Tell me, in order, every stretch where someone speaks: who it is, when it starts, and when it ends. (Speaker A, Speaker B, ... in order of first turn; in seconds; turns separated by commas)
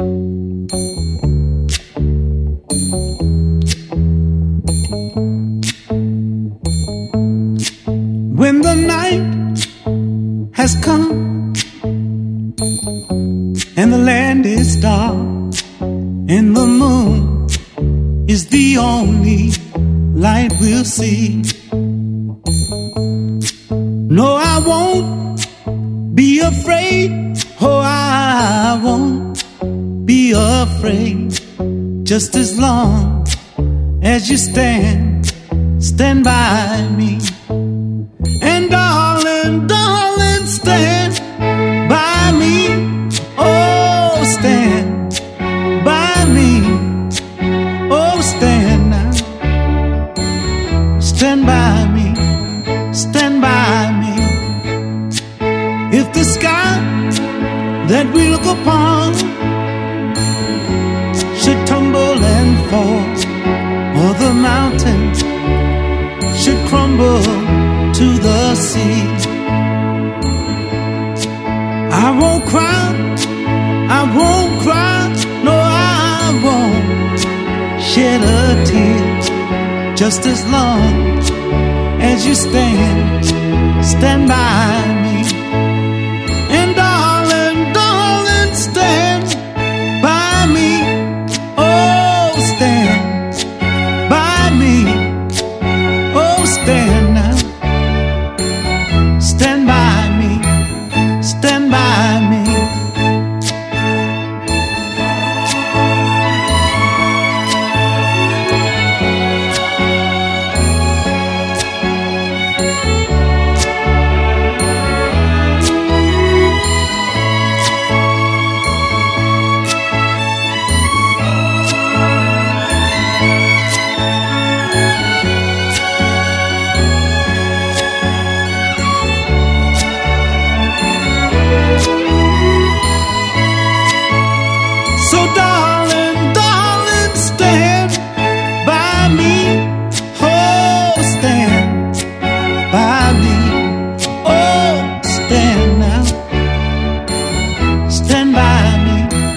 Speaker A: 8.3-9.7, Speaker A: 10.5-11.6, Speaker A: 13.8-15.6, Speaker A: 16.3-17.6, Speaker A: 18.2-21.5, Speaker A: 24.1-25.5, Speaker A: 26.1-29.4, Speaker A: 30.0-31.4, Speaker A: 32.0-33.3, Speaker A: 34.0-37.4, Speaker A: 38.4-41.2, Speaker A: 41.8-45.2, Speaker A: 45.8-47.1, Speaker A: 47.9-49.3, Speaker A: 51.0-52.3, Speaker A: 52.9-54.6, Speaker A: 55.9-57.2, Speaker A: 57.8-59.5, Speaker A: 61.3-63.2, Speaker A: 63.9-65.3, Speaker A: 66.3-69.3, Speaker A: 71.9-73.3, Speaker A: 73.9-77.2, Speaker A: 77.8-79.3, Speaker A: 79.9-81.2, Speaker A: 82.0-85.4, Speaker A: 86.5-89.4, Speaker A: 90.0-93.4, Speaker A: 94.0-95.2, Speaker A: 96.1-97.5, Speaker A: 99.2-100.6, Speaker A: 101.2-102.8, Speaker A: 135.0-142.0, Speaker A: 142.7-146.2, Speaker A: 147.9-149.2